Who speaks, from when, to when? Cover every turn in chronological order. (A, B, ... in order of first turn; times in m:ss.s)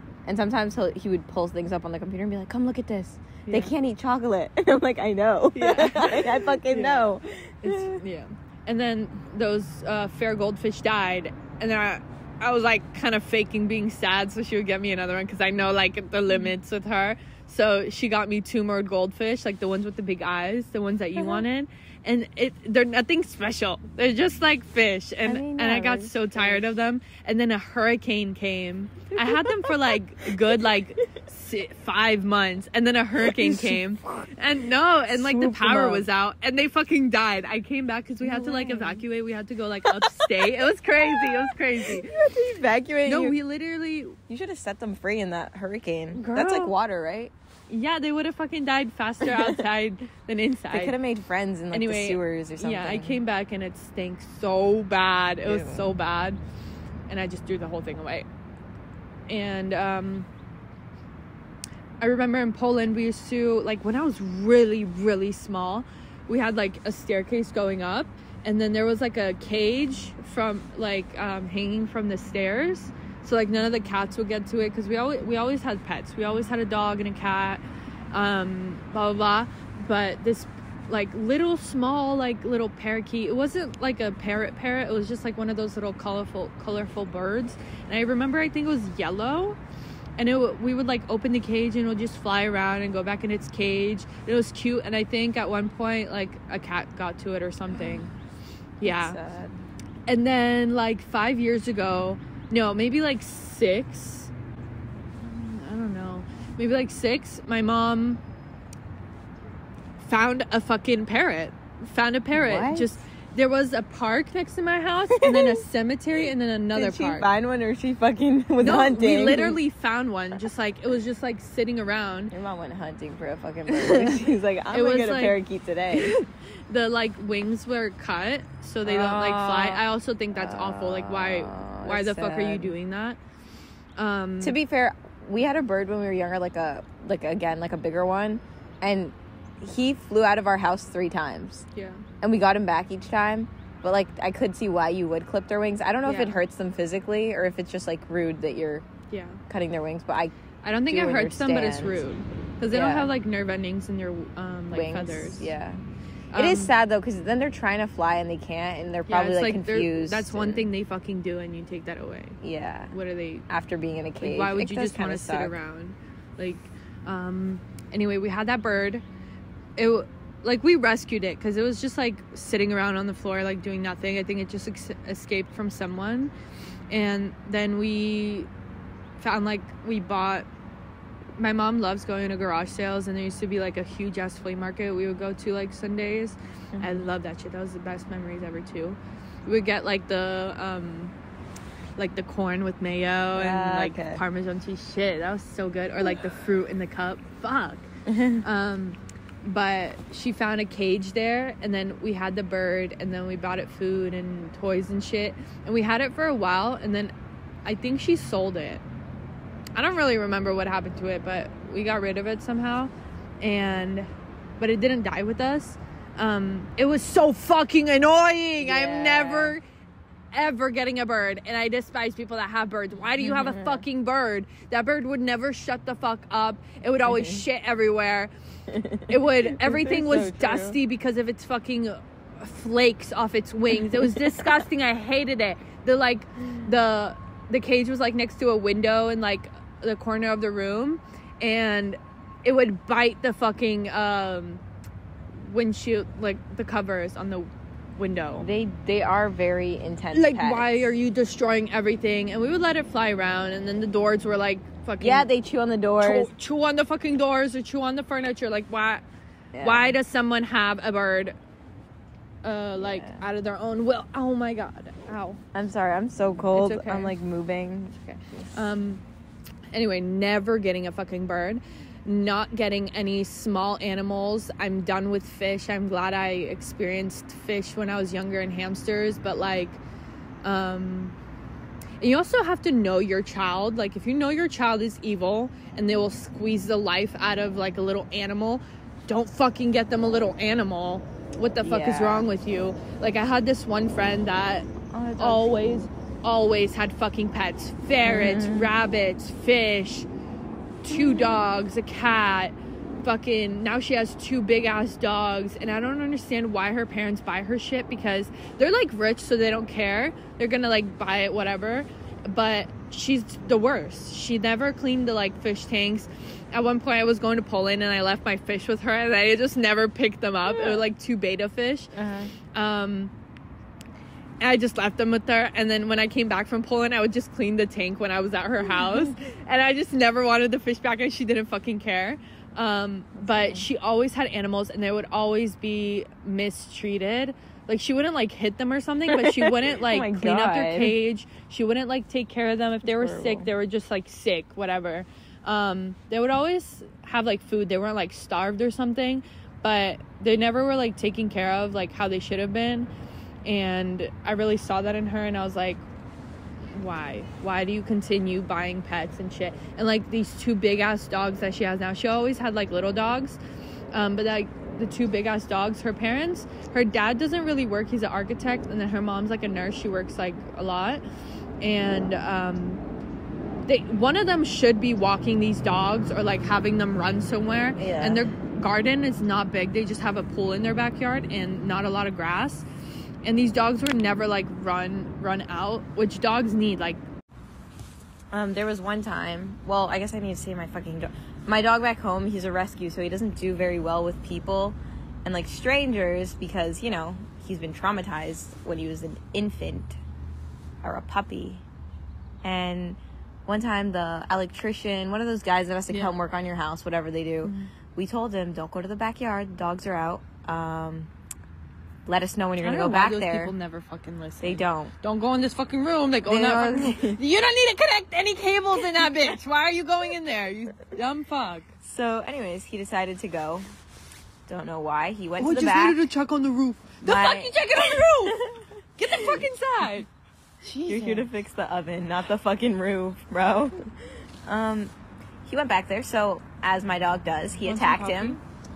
0:00.2-0:08.0 A
0:03.4-0:03.7 B
0:05.5-0:42.2 B
0:16.3-0:16.5 A
0:21.1-0:21.4 A
0:25.2-0:26.7 A
0:29.1-0:30.3 A
0:33.2-0:34.3 A
0:35.1-0:36.1 A
0:38.2-0:39.0 A
0:39.8-0:43.4 A
0:43.0-0:44.2 B
0:44.3-0:47.3 A
0:46.1-0:46.7 B
0:47.7-0:51.0 B
0:49.2-0:49.5 A
0:50.7-0:53.2 A
0:51.7-0:56.4 B
0:55.4-0:56.0 A
0:57.1-0:58.3 B
0:59.3-1:00.3 B
1:02.0-1:29.6 B
1:30.2-1:38.1 B
1:38.8-1:39.2 B
1:38.8-1:39.6 A
1:40.1-1:44.3 B
1:45.2-1:48.2 B
1:50.0-1:57.3 B
1:52.3-1:53.0 A
1:55.1-1:55.6 A
1:56.7-1:59.6 A
1:58.6-2:02.3 B
2:02.3-2:06.1 A
2:03.7-2:05.4 B
2:05.9-2:13.2 B
2:08.8-2:12.7 A
2:14.0-2:14.6 B
2:14.4-2:21.6 A
2:21.7-2:22.0 B
2:22.2-2:28.8 A
2:26.0-2:26.4 B
2:29.1-2:29.4 B
2:29.5-2:30.3 A
2:30.6-2:35.5 B
2:30.8-2:32.0 A
2:32.7-2:33.1 A
2:34.7-2:35.8 A
2:36.3-2:36.7 B
2:36.3-2:40.7 A
2:39.1-2:42.4 B
2:42.4-2:42.9 A
2:42.9-2:43.5 B
2:43.5-2:45.5 A
2:44.2-2:49.0 B
2:49.8-2:56.3 B
2:56.9-2:58.5 B
2:59.2-3:00.5 B
3:01.4-3:11.1 B
3:06.8-3:07.0 A
3:12.0-3:17.9 B
3:13.3-3:14.2 A
3:18.0-3:18.4 A
3:18.4-3:27.1 B
3:27.6-3:28.8 B
3:29.7-3:39.6 B
3:38.6-3:39.6 A
3:40.3-3:48.3 B
3:43.2-3:43.8 A
3:47.0-3:47.4 A
3:48.7-3:50.8 A
3:49.1-4:04.6 B
3:53.8-3:54.1 A
4:05.3-4:08.5 B
4:08.4-4:10.9 A
4:10.1-4:15.3 B
4:15.0-4:16.3 A
4:16.0-4:19.0 B
4:19.5-4:20.0 A
4:19.6-4:21.4 B
4:22.4-4:25.4 B
4:22.8-4:23.2 A
4:25.5-4:28.6 A
4:26.5-4:27.1 B
4:28.5-4:29.0 B
4:29.7-4:39.8 B
4:40.4-4:41.1 B
4:42.0-5:00.1 B
4:51.6-4:52.2 A
4:54.9-4:55.9 A
4:58.0-4:58.7 A
5:00.8-5:21.9 B
5:00.9-5:01.5 A
5:20.5-5:20.8 A
5:21.9-5:22.3 A
5:22.5-5:23.1 B
5:24.4-5:52.9 B
5:33.2-5:33.6 A
5:39.1-5:41.0 A
5:42.8-5:43.5 A
5:53.4-5:55.8 B
5:56.7-6:03.4 B
6:03.9-6:11.0 B
6:11.6-6:12.8 B
6:13.6-6:22.6 B
6:17.8-6:18.3 A
6:23.2-6:27.0 B
6:28.3-6:40.0 A
6:40.8-6:41.6 A
6:42.4-6:51.1 A
6:45.9-6:46.2 B
6:47.4-6:47.7 B
6:52.0-6:53.5 A
6:52.6-7:01.7 B
6:54.4-6:54.9 A
6:56.2-6:57.2 A
7:01.8-7:03.6 A
7:04.5-7:06.0 A
7:05.4-7:10.1 B
7:07.0-7:07.5 A
7:10.6-7:11.3 B
7:10.8-7:13.9 A
7:14.4-7:14.9 A
7:15.4-7:18.4 A
7:17.6-7:18.4 B